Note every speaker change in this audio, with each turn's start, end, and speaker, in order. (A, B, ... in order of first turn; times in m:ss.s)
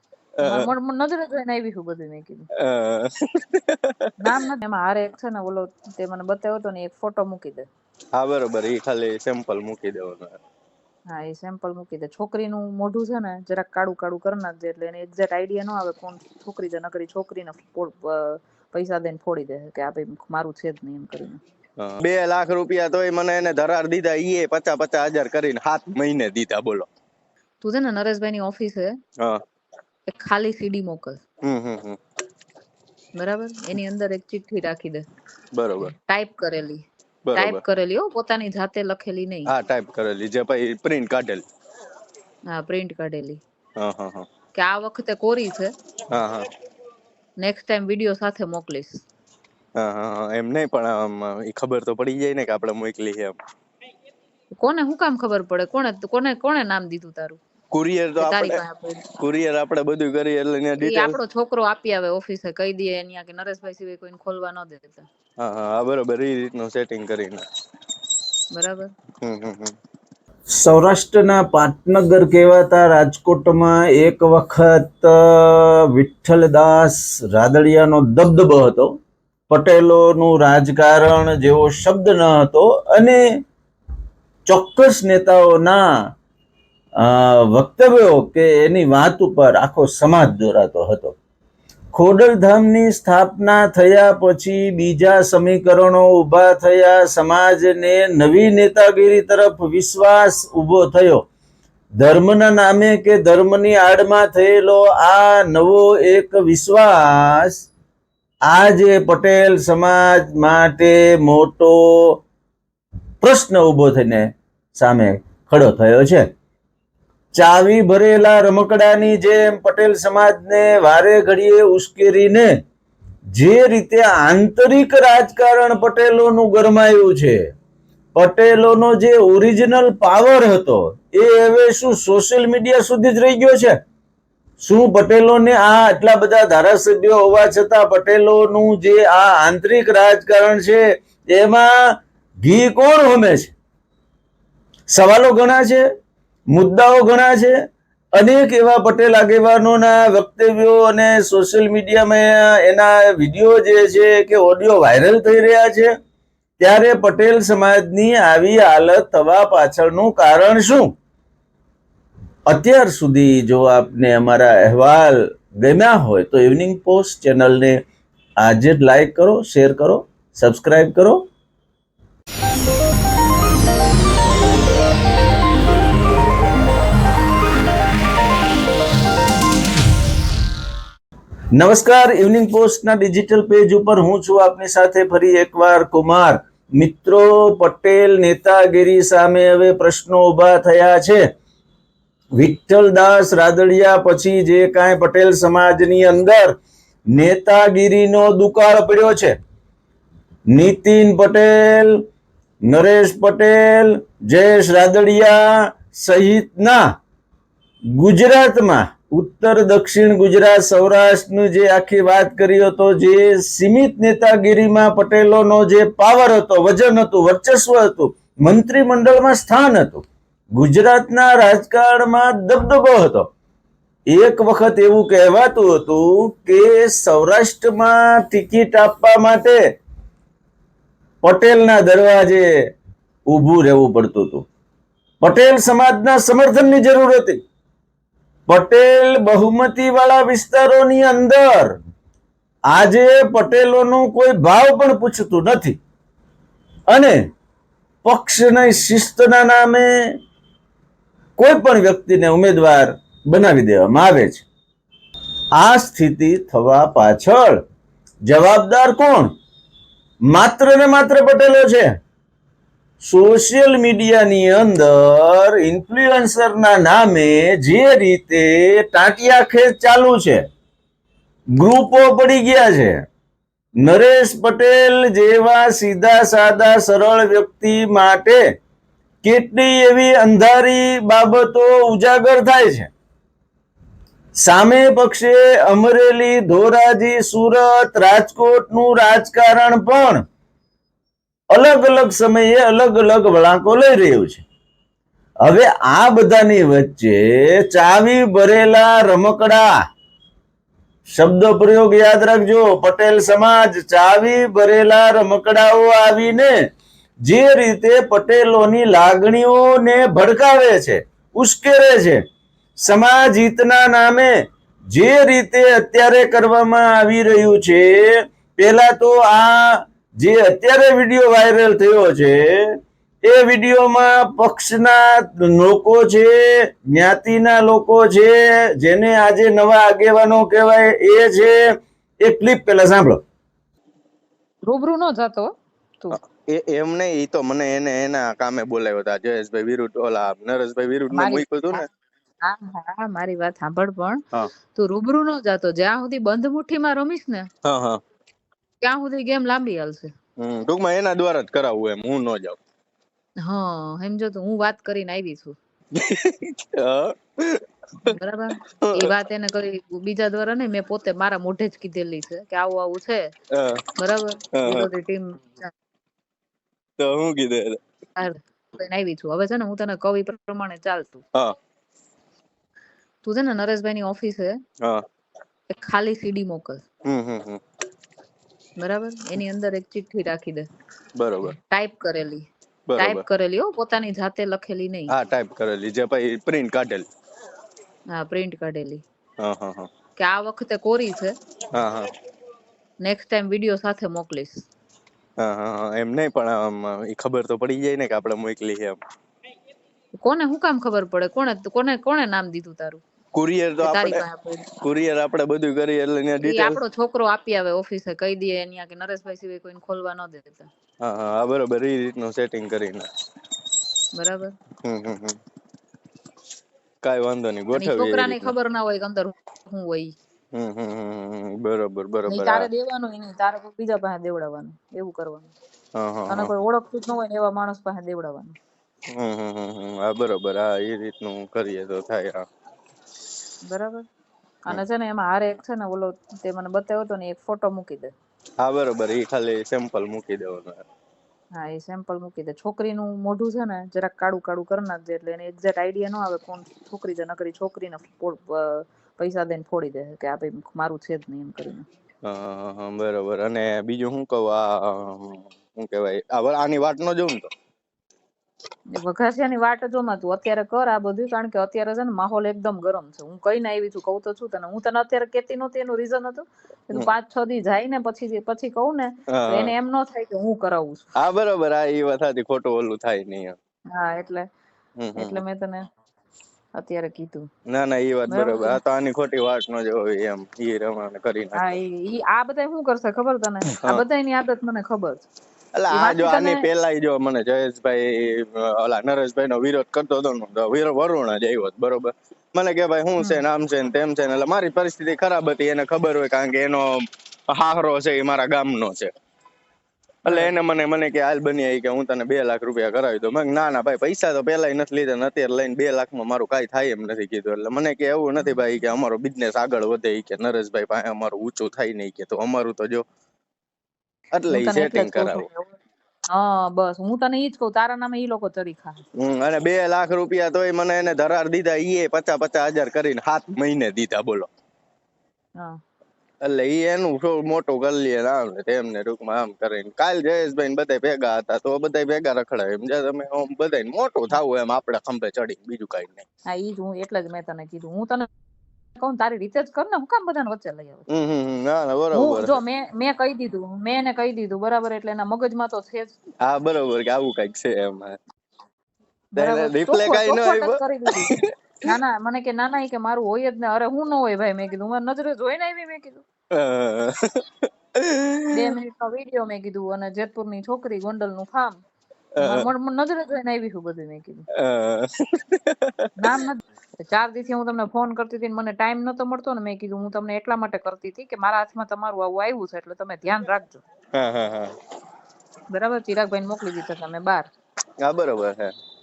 0:00.4-0:00.7 A
0:00.4-0:02.4 B
0:02.6-0:04.1 A
0:04.2-0:07.6 B
0:08.2-0:10.4 A
0:11.1-0:21.4 B
0:21.8-0:26.9 A
0:27.6-0:28.9 B
0:30.1-0:31.2 B
0:31.4-0:32.0 A
0:33.2-0:35.0 B
0:35.5-0:35.9 A
0:35.8-0:36.8 B
0:37.2-0:37.6 A
0:37.4-0:39.5 B
0:39.5-0:41.4 A
0:42.5-0:43.4 B
0:43.8-0:44.3 A
0:44.5-0:45.7 B
0:46.1-0:46.5 A
0:47.4-0:49.0 B
0:49.8-0:53.4 A
0:54.6-0:57.4 B
0:57.7-0:58.6 A
0:58.2-0:59.0 B
0:59.2-1:01.2 A
1:00.8-1:05.0 B
1:05.4-1:07.4 A
1:08.5-1:08.9 B
1:09.2-1:09.7 A
1:10.6-1:18.9 C
1:19.5-1:23.4 C
1:24.4-1:25.8 C
1:27.0-1:31.2 C
1:31.9-1:41.2 C
1:42.0-1:47.6 C
1:48.5-1:52.2 C
1:53.2-1:56.3 C
1:57.3-2:02.5 C
2:03.3-2:07.4 C
2:08.1-2:13.8 C
2:14.6-2:21.7 C
2:22.4-2:23.5 C
2:24.9-2:25.8 C
2:26.5-2:27.6 C
2:28.2-2:35.9 C
2:36.6-2:40.9 C
2:42.4-2:47.8 C
2:48.4-2:51.2 C
3:01.6-3:11.2 C
3:12.4-3:16.6 C
3:17.1-3:19.3 C
3:20.5-3:22.0 C
3:22.6-3:26.8 C
3:28.0-3:43.3 C
3:44.1-3:49.6 C
3:51.2-3:52.6 C
3:53.3-3:54.4 C
3:55.2-3:57.4 C
3:58.5-4:01.7 C
4:02.7-4:05.8 C
4:06.9-4:07.2 C
4:08.0-4:10.1 C
4:11.4-4:14.4 C
4:15.5-4:17.6 C
4:18.3-4:19.3 C
4:20.3-4:21.9 C
4:23.0-4:30.4 C
4:31.5-4:33.0 C
4:33.8-4:38.4 C
4:39.2-4:42.9 C
4:44.4-4:50.2 C
4:51.5-4:54.4 C
4:55.4-4:59.7 C
5:01.2-5:06.5 C
5:07.2-5:12.2 C
5:12.8-5:14.3 C
5:14.9-5:31.6 C
5:32.2-5:33.2 C
5:34.6-5:35.5 B
5:36.2-5:41.8 A
5:41.1-5:41.8 B
5:42.4-5:44.2 B
5:44.7-5:47.5 B
5:47.6-5:48.0 A
5:48.8-5:50.1 B
5:50.4-5:52.6 A
5:53.4-5:55.6 B
5:56.0-5:57.6 A
5:58.0-6:03.3 B
5:58.8-5:59.1 A
6:03.5-6:03.8 A
6:04.0-6:05.7 B
6:04.6-6:04.9 A
6:07.0-6:07.8 A
6:08.2-6:11.2 B
6:13.2-6:14.5 B
6:15.7-6:16.8 B
6:17.0-6:17.6 A
6:18.8-6:20.6 B
6:21.2-6:21.5 A
6:21.5-6:22.5 B
6:22.9-6:23.2 A
6:23.0-6:25.1 B
6:25.1-6:27.1 A
6:28.2-6:29.0 B
6:29.4-6:29.9 A
6:30.2-6:31.3 B
6:31.7-6:32.1 A
6:33.0-6:34.6 B
6:35.4-6:39.0 A
6:40.2-6:43.0 B
6:43.3-6:44.2 A
6:43.8-6:44.7 B
6:44.8-6:46.8 A
6:46.4-6:50.7 B
6:51.0-6:53.1 A
6:54.1-6:54.5 B
6:54.8-6:55.4 A
6:57.0-6:58.5 A
6:57.7-7:00.1 B
7:00.5-7:02.7 A
7:02.3-7:05.5 B
7:06.0-7:06.5 A
7:06.3-7:08.6 B
7:09.2-7:12.4 A
7:13.7-7:14.0 B
7:14.7-7:18.1 B
7:18.6-7:20.8 A
7:21.6-7:31.8 B
7:32.2-7:37.5 A
7:38.9-7:51.1 B
7:49.3-7:49.7 A
7:51.2-7:53.5 A
7:53.9-7:54.4 B
7:55.0-7:55.4 A
7:55.2-7:55.8 B
7:56.8-7:57.4 B
7:57.7-8:01.7 A
7:58.3-7:58.8 B
8:01.6-8:05.2 B
8:05.7-8:16.9 A
8:05.9-8:06.7 B
8:17.5-8:19.1 A
8:20.2-8:33.0 A
8:20.3-8:20.5 B
8:34.3-8:35.5 A
8:34.5-8:35.7 B
8:36.3-8:39.0 B
8:39.2-8:44.5 A
8:46.4-8:56.2 A
8:56.5-8:58.3 B
8:59.0-9:01.0 B
9:01.1-9:02.6 A
9:02.1-9:06.1 B
9:06.4-9:08.2 A
9:09.4-9:11.3 B
9:09.4-9:11.5 A
9:11.8-9:16.2 B
9:16.5-9:17.4 A
9:18.0-9:18.7 A
9:18.5-9:21.8 B
9:22.4-9:22.7 A
9:22.4-9:24.4 B
9:24.6-9:26.1 A
9:26.2-9:33.8 B
9:34.1-9:34.7 A
9:35.7-9:37.5 B
9:38.0-9:38.7 A